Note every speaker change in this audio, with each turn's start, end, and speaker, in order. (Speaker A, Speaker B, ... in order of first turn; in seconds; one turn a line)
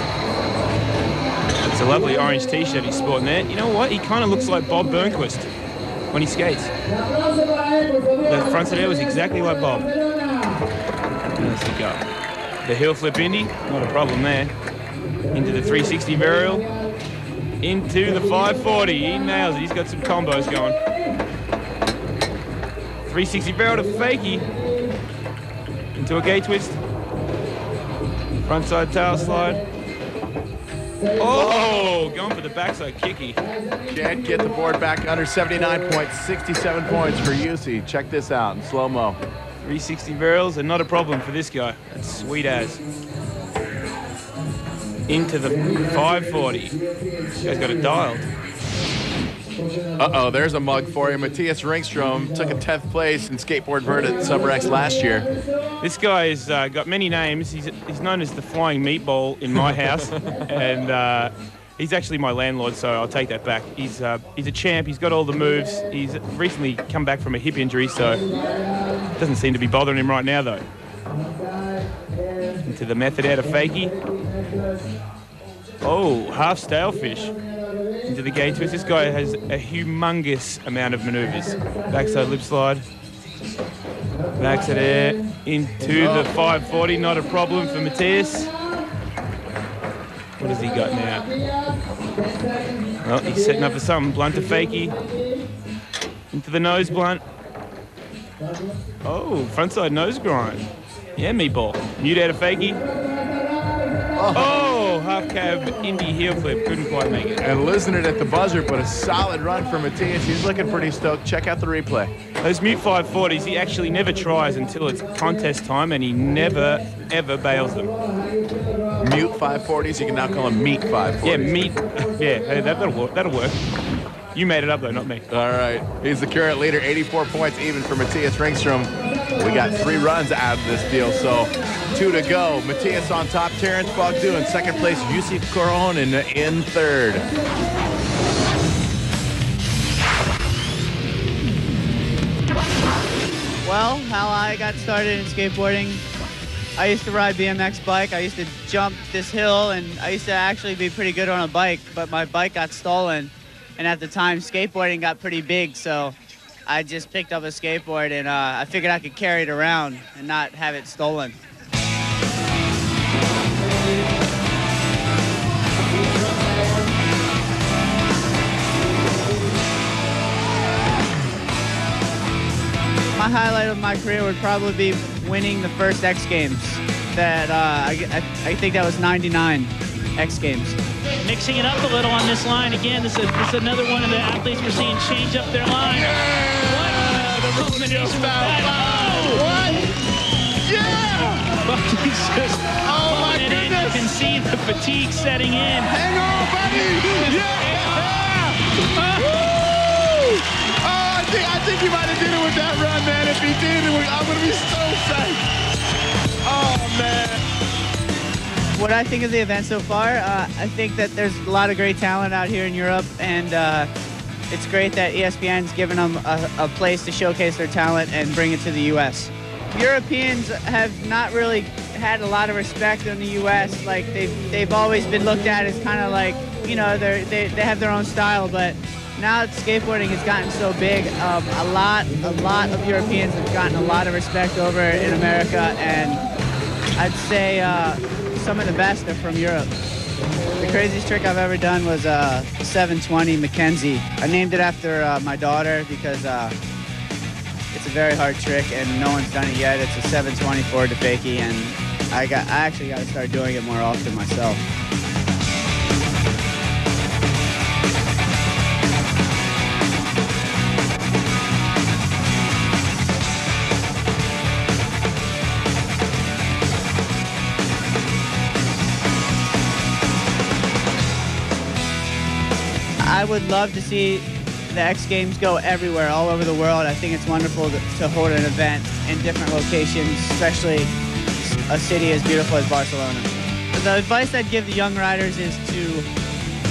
Speaker A: 1.6-5.5
Speaker A: 6.1-6.7
Speaker A: 8.2-9.9
Speaker A: 11.3-12.0
Speaker A: 12.6-14.5
Speaker A: 15.3-16.7
Speaker A: 17.6-20.8
Speaker A: 23.1-24.5
Speaker A: 25.9-26.8
Speaker A: 28.4-29.6
Speaker A: 31.1-33.4
Speaker B: 33.9-39.2
Speaker A: 39.6-42.8
Speaker A: 45.1-46.8
Speaker A: 47.4-48.3
Speaker B: 50.0-55.3
Speaker A: 55.8-68.2
Speaker B: 60.1-60.4
Speaker A: 69.2-70.6
Speaker A: 72.6-73.9
Speaker A: 75.8-77.3
Speaker A: 78.0-82.8
Speaker A: 84.3-88.5
Speaker B: 85.9-86.3
Speaker A: 90.4-91.3
Speaker A: 93.0-95.0
Speaker A: 96.3-97.2
Speaker A: 99.0-100.6
Speaker A: 101.2-102.8
Speaker B: 104.2-104.7
Speaker A: 104.3-107.5
Speaker B: 107.4-112.1
Speaker A: 112.4-117.9
Speaker B: 119.0-121.5
Speaker A: 121.2-123.5
Speaker A: 124.3-125.2
Speaker B: 125.3-137.3
Speaker C: 143.6-146.0
Speaker C: 146.8-156.1
Speaker C: 156.7-161.4
Speaker C: 173.1-180.8
Speaker D: 181.2-189.5
Speaker B: 185.8-189.9
Speaker B: 190.6-191.6
Speaker D: 191.5-195.9
Speaker B: 192.8-194.1
Speaker B: 195.8-205.4
Speaker D: 197.1-199.2
Speaker B: 206.4-207.4
Speaker C: 208.7-213.9
Speaker C: 214.5-236.2
Speaker C: 236.9-239.7
Speaker C: 240.6-246.5
Speaker C: 247.7-254.6
Speaker C: 273.0-280.9
Speaker C: 281.4-286.1